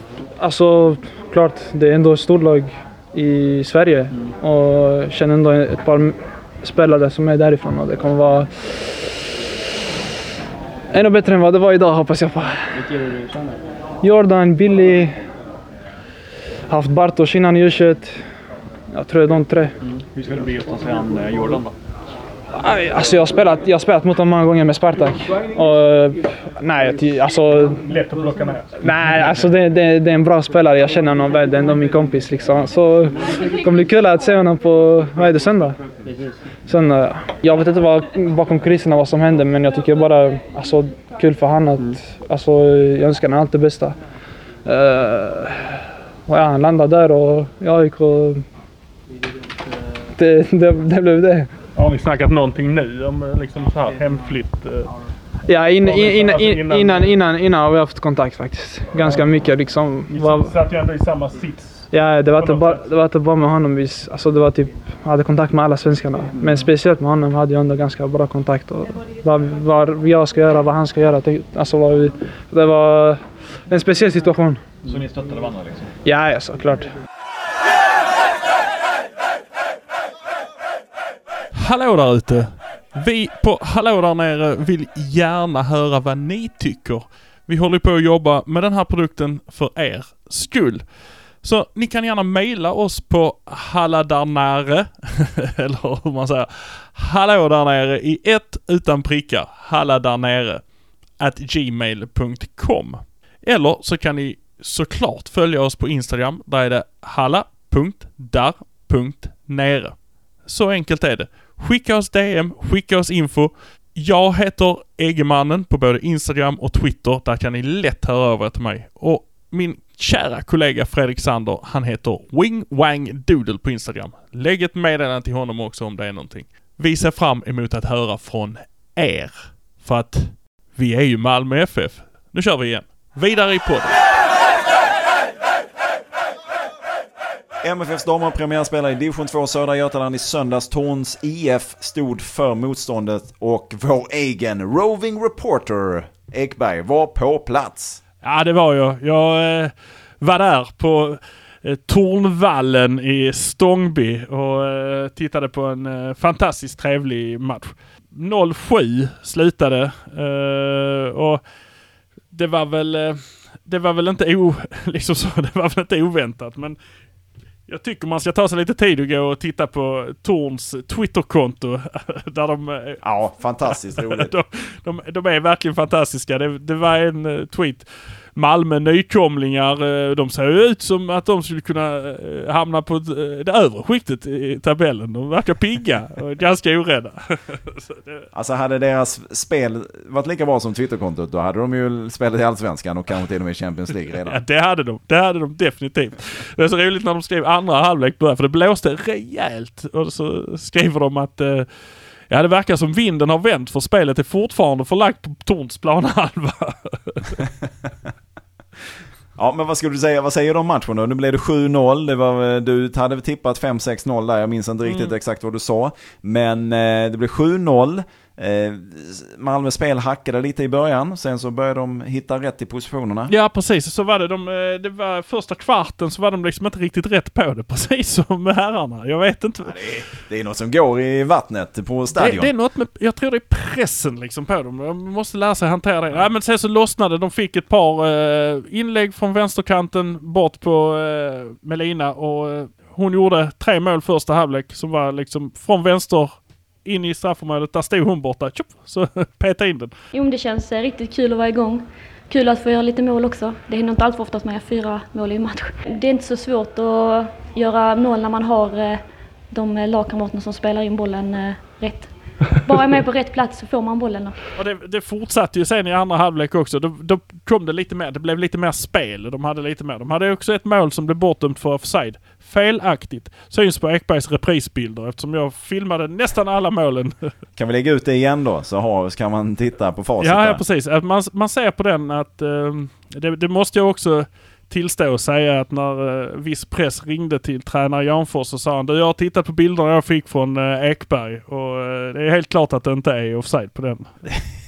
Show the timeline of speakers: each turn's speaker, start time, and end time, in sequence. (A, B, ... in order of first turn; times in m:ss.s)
0:00.4-0:08.7 A
0:10.9-0:12.8 A
0:14.0-0:15.2 A
0:16.7-0:18.2 A
0:18.9-0:19.8 A
0:20.0-0:21.7 B
0:22.5-0:27.8 A
0:27.8-0:28.7 C
0:28.8-0:35.8 A
0:36.6-0:44.0 A
0:44.6-0:48.4 A
0:50.2-0:51.5 A
0:51.7-0:54.9 C
0:55.4-1:00.5 A
0:55.8-0:57.1 C
1:00.1-1:02.8 C
1:01.9-1:14.6 A
1:14.8-1:15.9 B
1:16.0-1:16.9 A
1:21.5-2:14.0 C
2:17.6-2:28.0 D
2:28.2-2:41.4 C
2:42.3-2:46.8 C
2:47.7-2:53.0 C
2:53.0-2:54.3 D
2:53.7-3:08.3 C
3:08.3-3:14.4 D
3:14.2-3:21.7 C
3:22.3-3:27.4 C
3:29.4-3:43.3 D
3:34.9-3:35.1 C
3:43.3-3:49.7 C
3:49.6-3:52.5 D
3:52.1-4:09.9 C
4:10.1-4:24.4 E
4:24.6-4:37.3 C
4:37.6-4:40.6 D
4:40.2-4:54.1 C